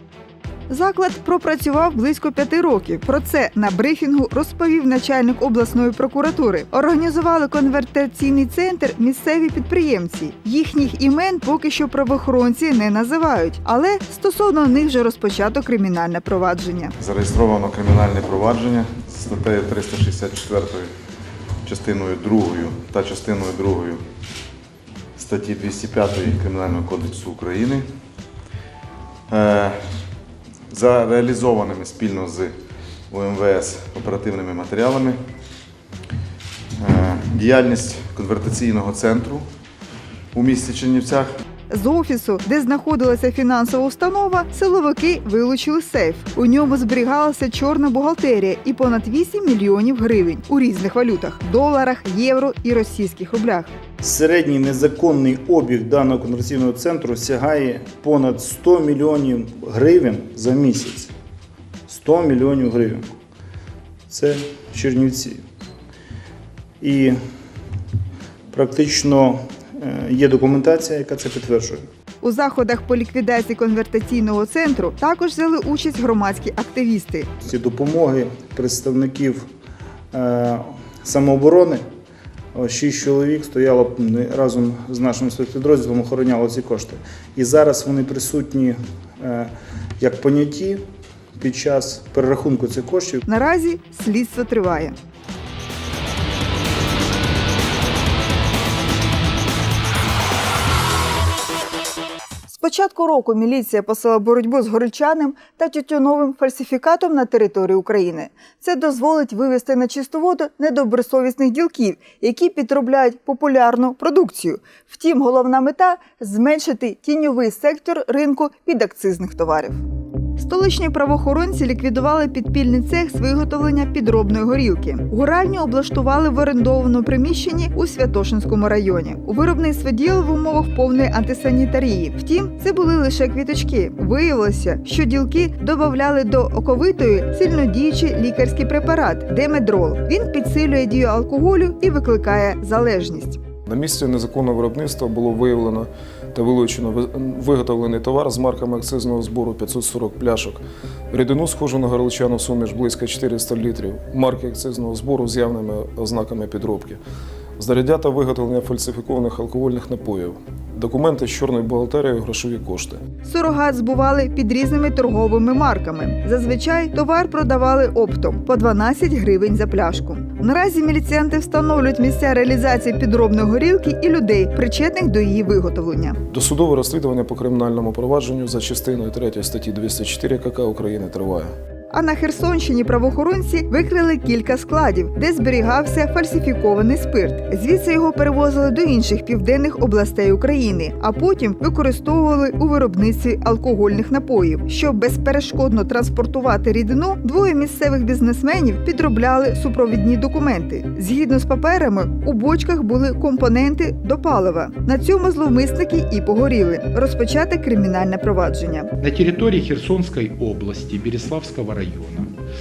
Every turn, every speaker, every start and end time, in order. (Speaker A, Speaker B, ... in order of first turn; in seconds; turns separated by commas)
Speaker A: 0.7-16.9, Speaker B: 17.0-20.9, Speaker B: 21.6-24.0, Speaker B: 25.1-27.9, Speaker B: 29.3-29.8, Speaker B: 30.7-32.5, Speaker B: 33.1-35.2, Speaker B: 36.8-39.5, Speaker B: 40.3-41.3, Speaker A: 41.7-53.7, Speaker C: 54.0-61.1, Speaker C: 61.9-63.0, Speaker C: 64.1-65.4, Speaker C: 66.8-67.1, Speaker C: 68.5-71.8, Speaker A: 72.2-77.3, Speaker C: 77.4-79.4, Speaker C: 80.1-81.8, Speaker C: 82.5-90.8, Speaker C: 91.4-93.2, Speaker A: 93.3-94.9, Speaker A: 102.5-119.8, Speaker A: 120.4-143.4, Speaker D: 143.7-157.0, Speaker D: 157.6-163.0, Speaker A: 163.2-176.2, Speaker D: 176.3-181.5, Speaker A: 181.9-208.9, Speaker E: 209.0-212.3